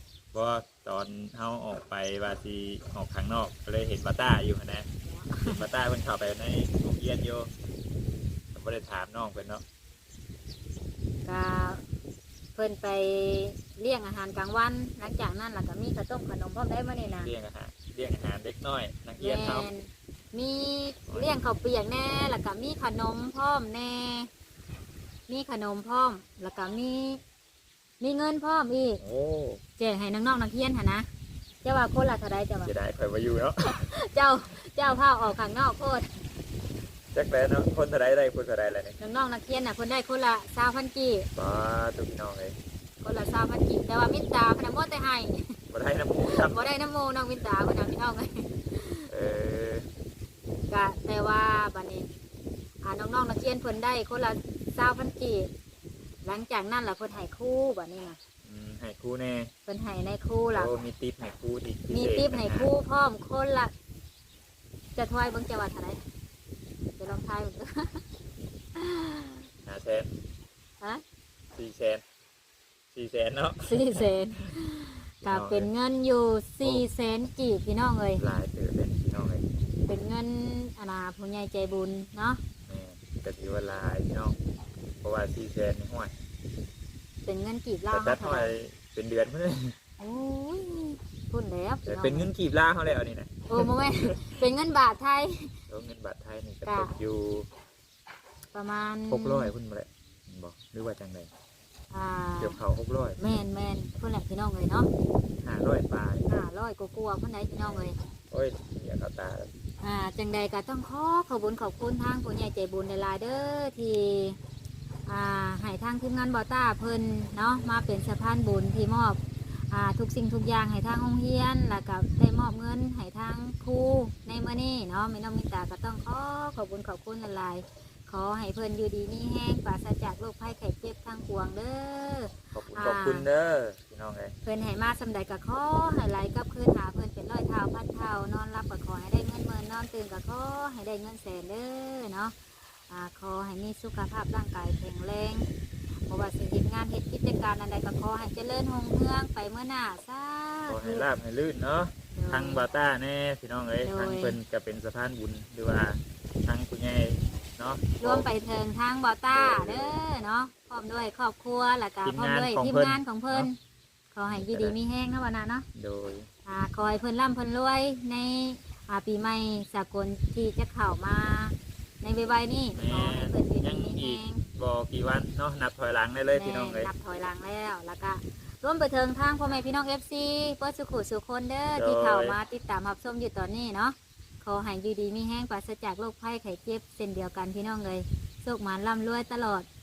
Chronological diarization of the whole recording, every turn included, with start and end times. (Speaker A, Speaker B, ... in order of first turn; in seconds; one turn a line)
Speaker A: 0.3-4.9
Speaker B: 5.3-5.6
Speaker A: 5.4-7.5
Speaker A: 8.5-9.6
Speaker B: 11.2-11.8
Speaker B: 12.6-17.3
Speaker A: 17.2-19.7
Speaker B: 19.2-24.3
Speaker B: 25.3-27.2
Speaker B: 28.0-29.0
Speaker A: 29.0-29.6
Speaker B: 29.8-31.1
Speaker B: 31.6-32.7
Speaker A: 32.6-33.8
Speaker B: 33.6-36.1
Speaker A: 37.1-39.0
Speaker B: 39.0-41.3
Speaker A: 41.4-42.5
Speaker B: 43.0-45.5
Speaker A: 45.7-46.7
Speaker B: 46.2-49.1
Speaker A: 49.1-49.9
Speaker B: 50.7-52.1
Speaker B: 52.8-55.5
Speaker B: 56.2-58.2
Speaker A: 58.4-59.5
Speaker B: 59.6-60.7
Speaker A: 60.5-62.7
Speaker B: 61.9-63.7
Speaker B: 65.0-66.0
Speaker B: 67.0-68.0
Speaker B: 68.8-69.4
Speaker A: 69.6-70.1
Speaker A: 71.5-72.0
Speaker A: 72.9-74.5
Speaker B: 73.7-78.2
Speaker A: 75.2-75.7
Speaker A: 78.2-79.5
Speaker B: 79.9-82.4
Speaker A: 82.7-84.3
Speaker A: 85.0-86.1
Speaker B: 87.2-88.5
Speaker A: 87.9-89.8
Speaker B: 90.0-92.3
Speaker A: 91.8-94.3
Speaker B: 93.5-95.5
Speaker A: 95.7-97.5
Speaker B: 96.6-96.9
Speaker B: 98.5-99.5
Speaker A: 99.1-101.3
Speaker B: 101.9-102.6
Speaker A: 102.4-103.2
Speaker B: 103.2-104.9
Speaker A: 105.4-106.3
Speaker B: 106.3-108.0
Speaker A: 107.6-109.5
Speaker B: 109.8-114.4
Speaker B: 115.1-119.2
Speaker B: 119.7-133.3
Speaker A: 132.5-134.3
Speaker B: 134.4-142.3
Speaker B: 142.9-145.4
Speaker B: 146.1-151.1
Speaker A: 150.7-158.3
Speaker B: 152.1-152.6
Speaker B: 153.8-154.4
Speaker B: 158.0-163.5
Speaker A: 159.3-160.0
Speaker A: 162.0-163.5
Speaker B: 164.1-165.7
Speaker A: 164.3-164.8
Speaker A: 165.8-166.3
Speaker B: 166.4-174.4
Speaker A: 172.7-176.9
Speaker B: 176.3-189.7
Speaker A: 181.8-182.4